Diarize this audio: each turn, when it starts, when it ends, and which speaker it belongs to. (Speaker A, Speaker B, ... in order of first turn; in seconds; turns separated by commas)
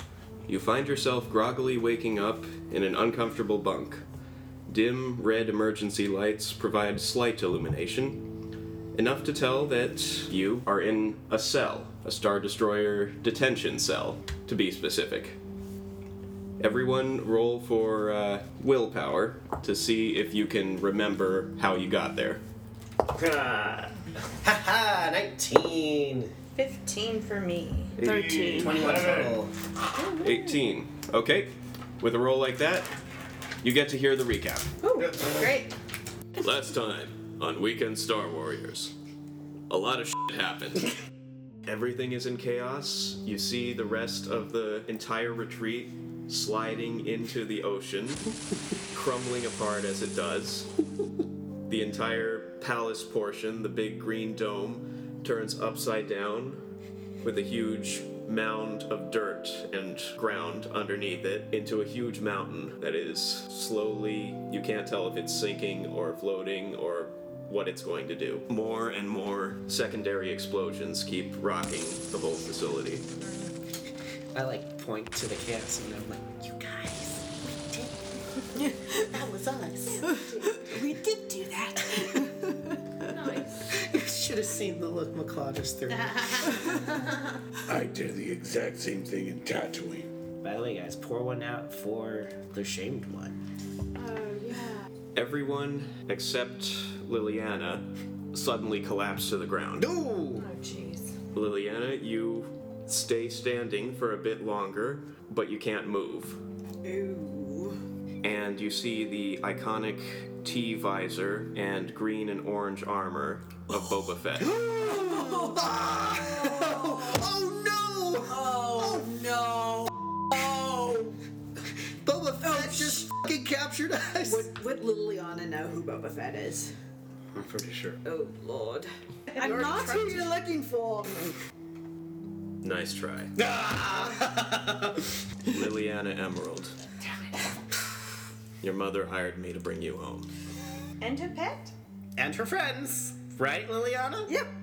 Speaker A: 0.5-4.0, Speaker A: 4.7-8.3, Speaker A: 8.9-15.3, Speaker A: 16.6-22.4, Speaker B: 23.1-23.9, Speaker C: 24.4-26.3, Speaker D: 26.5-28.0, Speaker A: 28.0-28.8, Speaker E: 28.0-29.0, Speaker B: 28.0-29.5, Speaker C: 28.6-29.5, Speaker D: 30.0-30.6, Speaker A: 30.2-32.9, Speaker A: 33.6-34.7, Speaker D: 34.8-35.7, Speaker C: 35.0-35.5, Speaker A: 36.4-38.9, Speaker A: 39.7-40.9, Speaker A: 41.6-48.3, Speaker A: 48.9-50.7, Speaker A: 51.7-56.6, Speaker A: 57.2-73.0, Speaker D: 73.2-73.5, Speaker C: 74.3-78.1, Speaker E: 78.6-79.0, Speaker C: 79.1-80.1, Speaker D: 80.0-80.7, Speaker E: 80.1-82.8, Speaker C: 81.8-82.1, Speaker D: 83.0-83.7, Speaker C: 83.7-86.8, Speaker D: 86.0-87.0, Speaker B: 87.7-90.1, Speaker C: 90.4-93.4, Speaker E: 94.0-94.8, Speaker A: 95.1-99.9, Speaker C: 99.8-100.5, Speaker D: 100.4-101.1, Speaker A: 101.3-106.4, Speaker E: 106.8-107.8, Speaker A: 108.2-114.5, Speaker C: 114.4-119.1, Speaker E: 114.8-117.2, Speaker E: 118.3-121.2, Speaker C: 122.0-124.5, Speaker E: 122.4-123.1, Speaker E: 124.2-126.7, Speaker B: 127.4-127.9, Speaker A: 127.6-127.9, Speaker E: 128.0-131.3, Speaker D: 129.3-130.3, Speaker A: 132.6-133.3, Speaker C: 133.4-135.1, Speaker A: 135.4-136.7, Speaker A: 138.6-140.3, Speaker D: 141.0-141.7, Speaker C: 142.2-144.3